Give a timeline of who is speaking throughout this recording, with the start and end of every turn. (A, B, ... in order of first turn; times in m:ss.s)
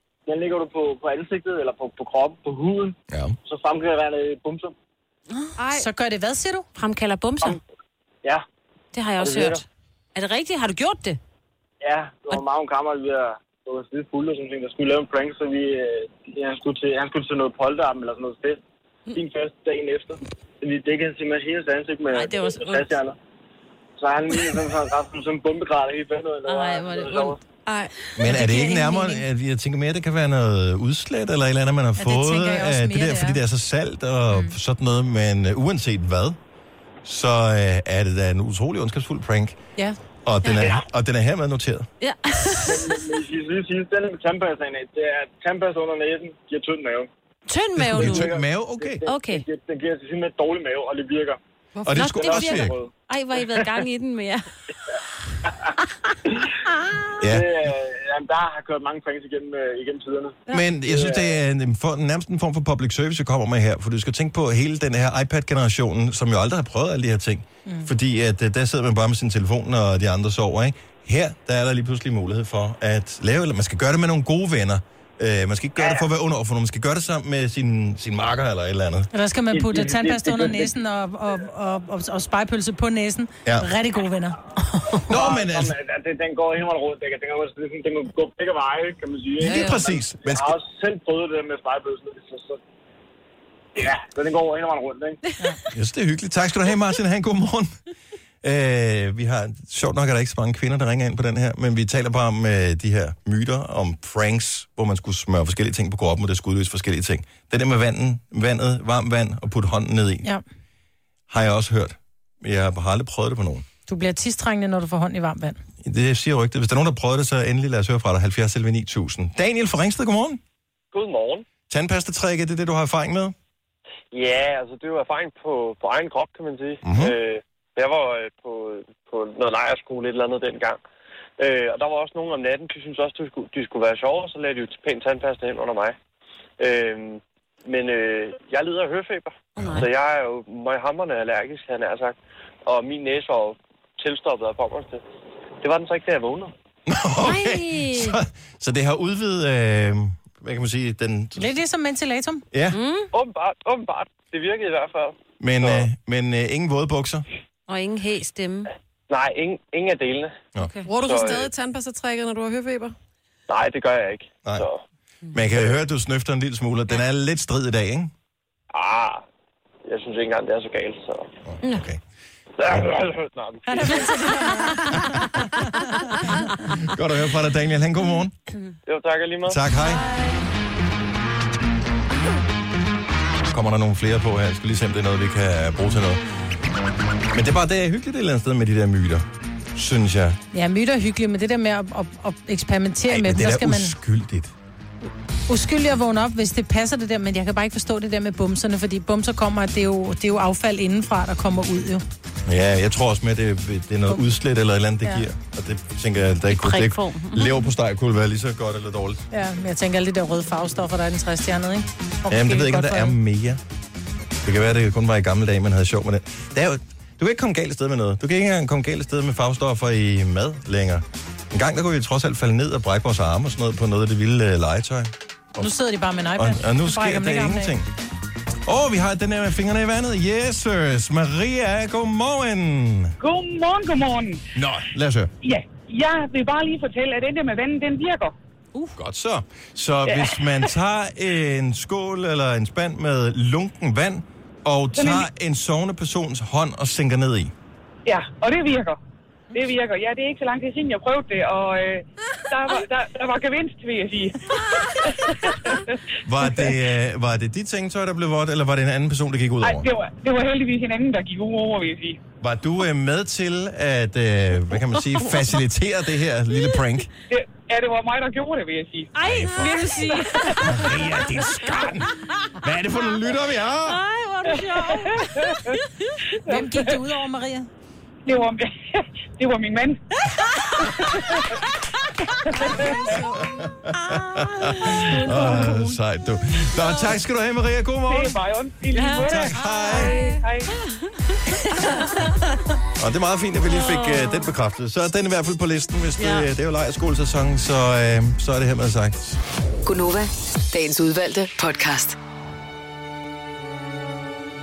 0:00.2-0:04.7 A
0:03.1-0:03.3 B
0:05.3-0:05.6 C
0:05.6-0:05.8 D
0:05.7-0:06.7 E
0:06.8-0:07.6 C
0:08.9-0:11.2 C
0:09.2-0:09.6 A
0:11.8-0:23.2 A
0:22.1-0:22.9 C
0:24.0-0:27.4 A
0:26.4-0:27.4 C
0:27.6-0:27.9 D
0:28.2-0:36.4 B
0:28.2-0:29.2 E
0:32.0-0:33.4 E
0:37.0-0:39.6 B
0:40.2-0:41.9 B
0:40.5-0:40.8 A
0:42.0-0:43.0 C
0:42.6-0:47.1 A
0:47.5-0:48.3 C
0:47.8-0:49.0 B
0:47.9-0:51.4 A
0:49.0-0:49.4 C
0:51.8-0:52.0 D
0:51.8-0:52.7 B
0:51.9-0:54.4 C
0:52.0-0:52.9 A
0:57.2-0:57.5 B
0:57.2-1:01.4 A
1:00.5-1:19.1 B
1:15.8-1:16.1 A
1:19.1-1:24.4 E
1:19.5-1:20.7 A
1:25.0-1:32.6 A
1:25.1-1:25.7 B
1:29.4-1:30.6 B
1:33.7-1:35.2 A
1:35.7-1:37.7 B
1:38.4-1:50.3 B
1:51.3-1:53.6 B
1:53.9-1:55.6 E
1:55.8-2:00.4 B
2:00.9-2:01.4 F
2:01.7-2:03.3 B
2:04.1-2:10.8 F
2:06.8-2:07.1 B
2:11.4-2:16.0 F
2:16.6-2:25.0 F
2:19.6-2:19.8 B
2:19.6-2:19.9 C
2:25.6-2:26.5 F
2:26.9-2:31.5 B
2:27.2-2:28.2 C
2:31.4-2:32.4 E
2:32.5-2:32.8 B
2:32.7-2:33.1 C
2:33.1-2:35.9 F
2:35.4-2:37.2 B
2:37.7-2:38.7 C
2:39.1-2:40.3 F
2:40.6-2:40.9 C
2:40.8-2:42.9 D
2:40.9-2:41.5 F
2:43.5-2:44.8 F
2:45.3-2:48.1 B
2:48.7-2:49.2 F
2:49.8-2:51.3 F
2:51.4-2:52.0 B
2:52.6-2:54.2 F
2:53.7-2:56.4 E
2:56.8-2:58.3 B
2:58.9-2:59.6 F
2:59.4-3:00.0 B
2:59.8-3:00.5 C
3:03.4-3:06.2 B
3:07.3-3:10.4 B
3:10.5-3:14.0 E
3:13.1-3:14.5 B
3:15.5-3:22.0 E
3:22.4-3:29.2 B
3:26.5-3:27.7 C
3:29.3-3:33.2 E
3:32.3-3:33.6 B
3:34.4-3:45.7 B
3:45.6-3:47.7 E
3:46.4-3:47.9 B
3:48.6-3:53.2 B
3:53.2-3:54.5 G
3:54.5-3:55.3 B
3:55.4-3:58.3 G
3:59.0-4:07.5 B
4:00.1-4:00.7 G
4:04.9-4:05.3 G
4:08.0-4:09.0 G
4:09.5-4:16.7 G
4:16.2-4:19.9 B
4:19.6-4:22.2 G
4:22.4-4:27.1 B
4:27.3-4:29.1 G
4:29.1-4:31.7 C
4:29.2-4:29.9 B
4:29.9-4:30.6 G
4:30.6-4:34.0 B
4:33.8-4:36.1 C
4:34.5-4:35.8 G
4:36.4-4:37.0 G
4:36.5-4:37.7 E
4:38.2-4:40.0 G
4:40.8-4:41.6 G
4:42.4-4:43.0 G
4:42.5-4:43.7 D
4:43.4-4:48.4 B
4:44.1-4:45.9 C
4:48.1-4:50.7 G
4:48.9-4:52.6 C
4:49.1-4:50.2 B
4:53.0-4:59.4 B
4:53.6-4:54.5 C
4:56.2-4:56.5 C
4:59.8-5:02.2 H